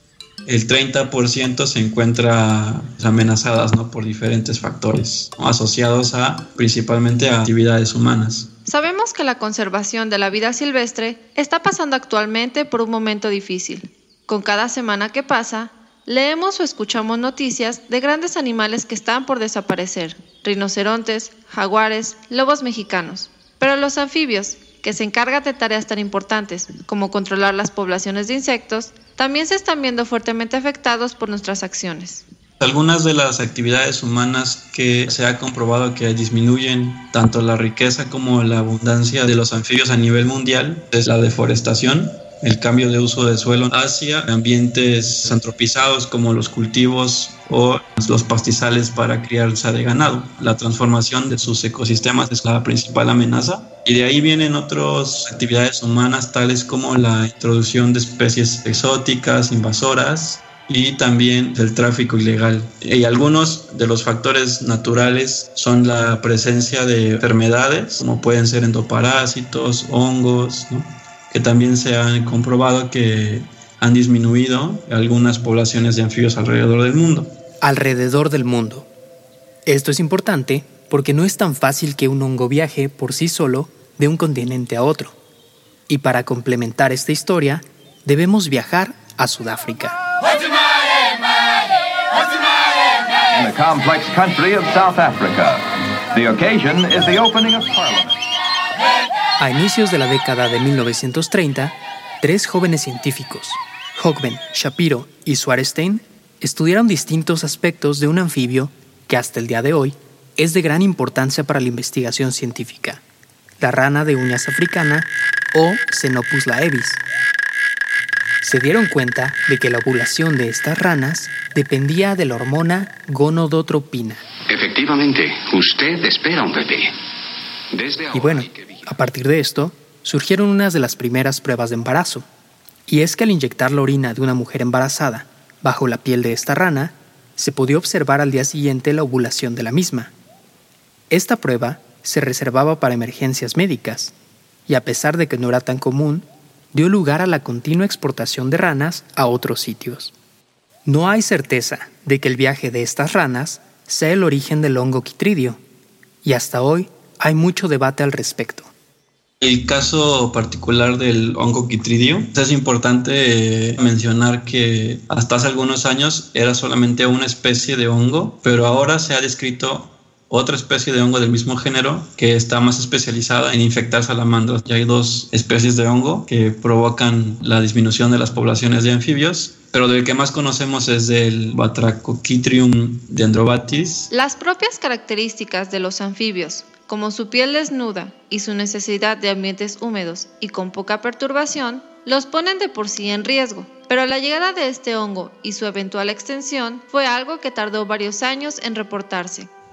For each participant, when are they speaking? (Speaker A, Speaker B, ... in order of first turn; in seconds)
Speaker A: 0.5-8.5, 32.6-77.3, 159.4-184.1
Speaker B: 8.7-32.2, 184.1-199.5
Speaker C: 77.6-78.9, 79.7-85.2, 85.9-90.0, 99.4-113.0, 113.6-117.0, 118.4-124.2, 128.1-132.2, 132.9-140.1, 141.1-144.1, 144.7-150.1, 150.8-155.6, 156.2-158.7
Speaker D: 93.3-98.2
Speaker E: 124.5-127.0, 127.7-128.7